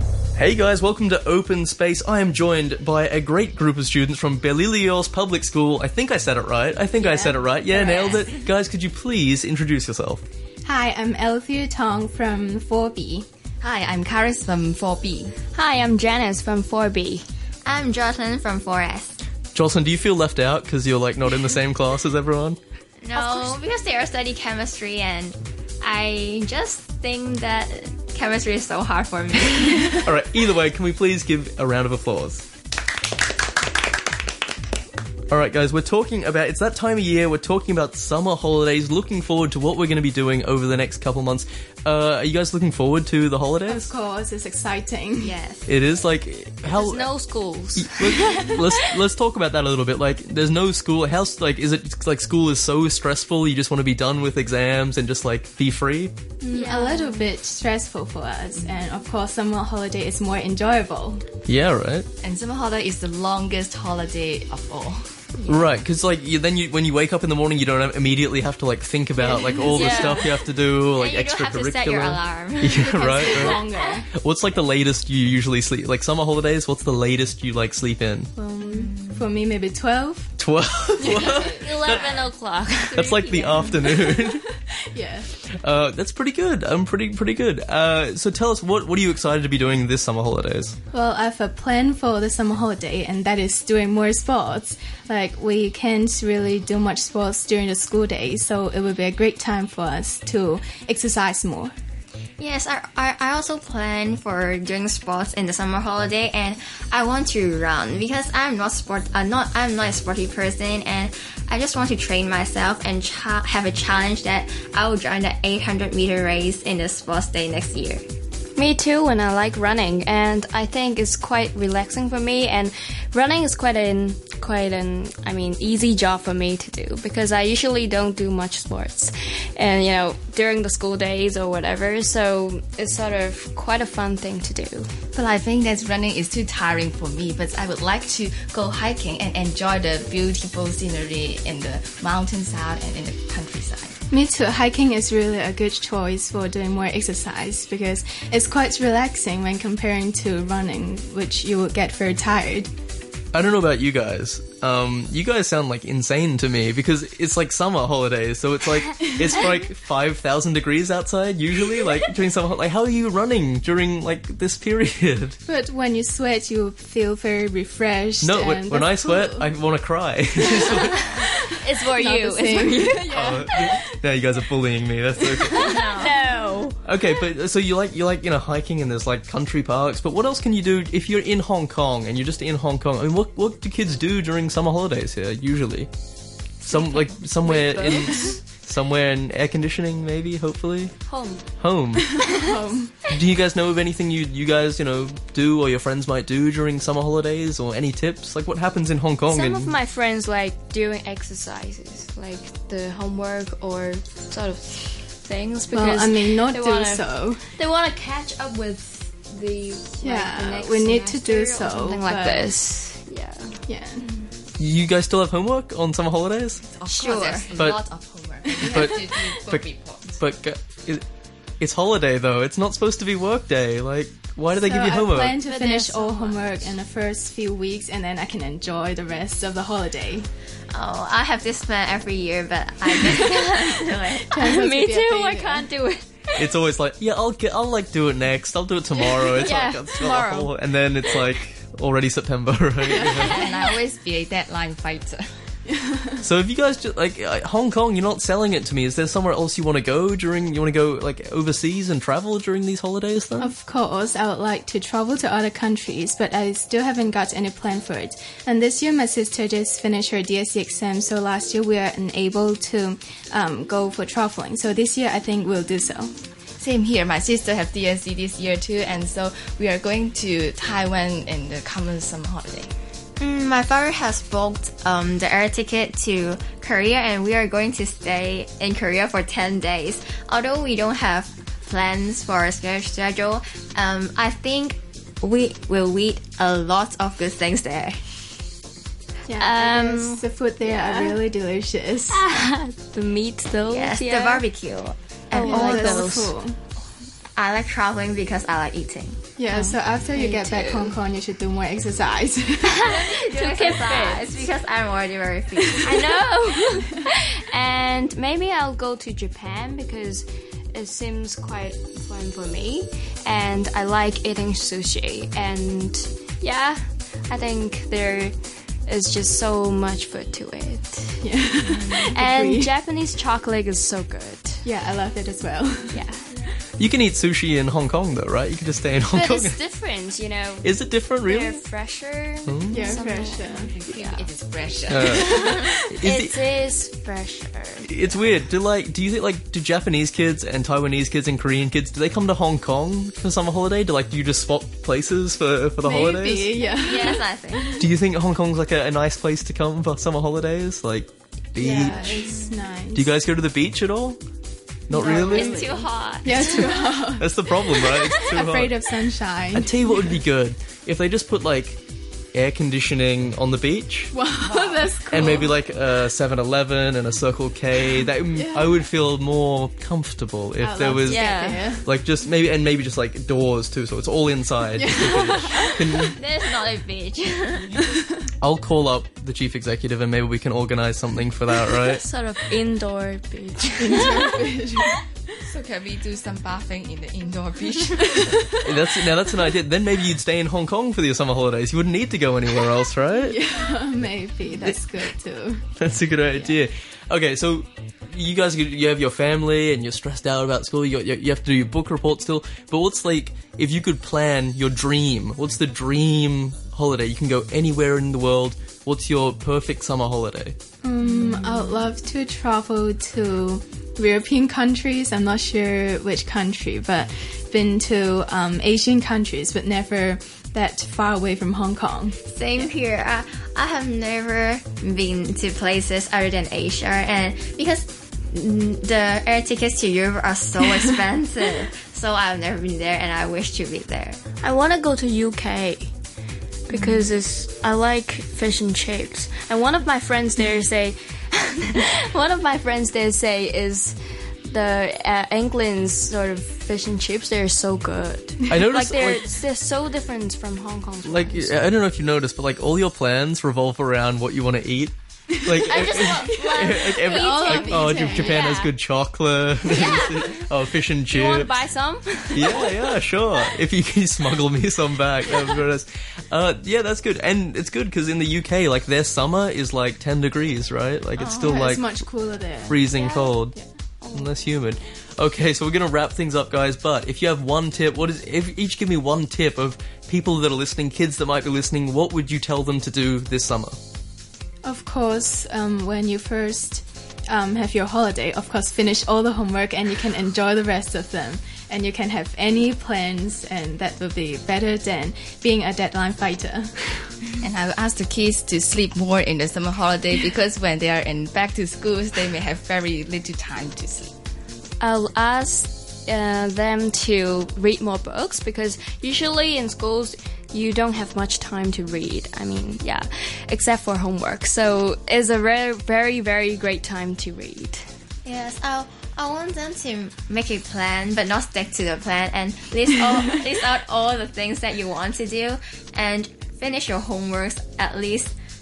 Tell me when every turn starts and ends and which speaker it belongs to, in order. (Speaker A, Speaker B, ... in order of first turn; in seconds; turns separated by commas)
Speaker A: 0.4-10.2, Speaker B: 7.0-7.4, Speaker B: 10.7-13.3, Speaker C: 13.6-15.4, Speaker D: 15.5-17.3, Speaker E: 17.6-19.1, Speaker A: 19.6-22.6, Speaker E: 23.0-30.1, Speaker D: 23.1-23.6, Speaker A: 30.0-32.5, Speaker A: 35.3-43.9, Speaker B: 43.7-45.4, Speaker E: 45.2-45.7, Speaker A: 45.7-47.1, Speaker D: 46.7-48.9, Speaker A: 47.8-56.1, Speaker B: 56.4-61.2, Speaker D: 56.5-57.3, Speaker A: 61.5-62.1, Speaker C: 62.2-65.1, Speaker A: 65.5-78.3, Speaker B: 69.2-70.3, Speaker D: 69.6-70.4, Speaker E: 70.7-73.7, Speaker B: 72.7-74.1, Speaker B: 78.4-80.3, Speaker A: 80.4-82.0, Speaker C: 81.0-82.3, Speaker D: 81.3-83.9, Speaker A: 82.9-84.5, Speaker B: 84.0-85.3, Speaker A: 85.6-90.8, Speaker B: 90.9-101.7, Speaker E: 102.4-118.0, Speaker D: 118.6-134.9, Speaker C: 135.1-143.9, Speaker B: 144.1-152.7, Speaker A: 153.3-165.4, Speaker B: 165.5-169.5, Speaker A: 168.2-171.1, Speaker D: 171.0-173.4, Speaker B: 171.9-173.8, Speaker A: 173.1-175.9, Speaker B: 175.3-176.1, Speaker D: 175.5-176.8, Speaker A: 176.8-185.9, Speaker D: 186.6-188.4, Speaker A: 186.7-190.9, Speaker D: 191.1-191.5, Speaker A: 191.6-192.2, Speaker D: 192.3-192.5, Speaker B: 192.3-192.9, Speaker A: 193.1-199.8, Speaker D: 199.3-213.6, Speaker B: 205.7-207.4, Speaker B: 210.0-212.5, Speaker B: 213.7-214.1, Speaker A: 214.6-216.6, Speaker C: 216.6-220.2, Speaker E: 216.9-217.5, Speaker D: 216.9-217.5, Speaker B: 218.5-218.8, Speaker A: 218.6-221.0, Speaker A: 221.6-225.4, Speaker B: 224.6-230.3, Speaker D: 225.4-226.7, Speaker E: 230.7-234.3, Speaker D: 233.1-236.5, Speaker B: 234.3-235.7, Speaker A: 236.4-243.3, Speaker D: 239.2-241.2, Speaker B: 242.9-243.2, Speaker D: 242.9-243.8, Speaker C: 243.2-245.3, Speaker B: 245.7-246.2, Speaker A: 246.2-253.5, Speaker B: 253.4-266.1, Speaker C: 266.6-272.7, Speaker E: 273.2-287.9, Speaker B: 289.3-292.2, Speaker D: 289.4-291.2, Speaker D: 292.1-294.5, Speaker E: 293.7-296.1, Speaker D: 295.3-296.4, Speaker B: 295.4-296.6, Speaker E: 297.4-299.2, Speaker B: 299.4-303.0, Speaker D: 299.5-301.0, Speaker D: 302.7-304.5, Speaker E: 302.8-306.0, Speaker D: 305.8-318.4, Speaker D: 318.9-321.2, Speaker B: 321.2-322.7, Speaker D: 321.8-324.6, Speaker B: 324.6-326.0, Speaker D: 325.9-326.5, Speaker A: 326.8-329.6, Speaker D: 329.1-334.3, Speaker A: 330.6-331.6, Speaker A: 332.5-333.0, Speaker B: 332.7-333.7, Speaker C: 333.6-335.5, Speaker A: 334.9-336.4, Speaker B: 335.1-335.8, Speaker D: 335.1-338.0, Speaker A: 337.9-346.6, Speaker B: 345.8-347.8, Speaker E: 346.6-347.8, Speaker A: 347.8-352.4, Speaker B: 351.6-353.1, Speaker A: 352.9-354.2, Speaker A: 354.9-355.8, Speaker B: 354.9-360.1, Speaker E: 355.3-356.6, Speaker A: 356.4-358.8, Speaker A: 359.5-361.8, Speaker A: 362.3-364.1, Speaker B: 364.1-365.6, Speaker C: 364.5-364.9, Speaker A: 365.1-376.1, Speaker B: 368.3-368.9, Speaker B: 370.6-371.9, Speaker D: 371.0-371.7, Speaker B: 374.8-375.9, Speaker E: 375.6-377.9, Speaker A: 378.4-382.0, Speaker D: 381.7-384.6, Speaker B: 383.8-385.1, Speaker C: 385.4-388.5, Speaker A: 388.6-393.4, Speaker B: 393.3-395.6, Speaker A: 395.8-410.6, Speaker B: 410.8-422.2, Speaker E: 422.3-434.2, Speaker D: 434.4-435.9, Speaker D: 436.7-444.0, Speaker D: 444.5-451.6, Speaker A: 448.5-449.3, Speaker A: 451.1-461.6, Speaker B: 455.5-458.4, Speaker D: 455.6-458.7, Speaker D: 459.6-460.5, Speaker D: 461.1-463.0, Speaker A: 462.3-472.0, Speaker E: 471.2-471.6, Speaker B: 471.4-472.9, Speaker A: 472.6-473.6, Speaker D: 472.9-473.5, Speaker D: 474.0-474.4, Speaker A: 474.1-483.8, Speaker B: 484.6-497.1, Speaker C: 497.4-504.1, Speaker D: 504.8-517.9, Speaker E: 518.2-528.3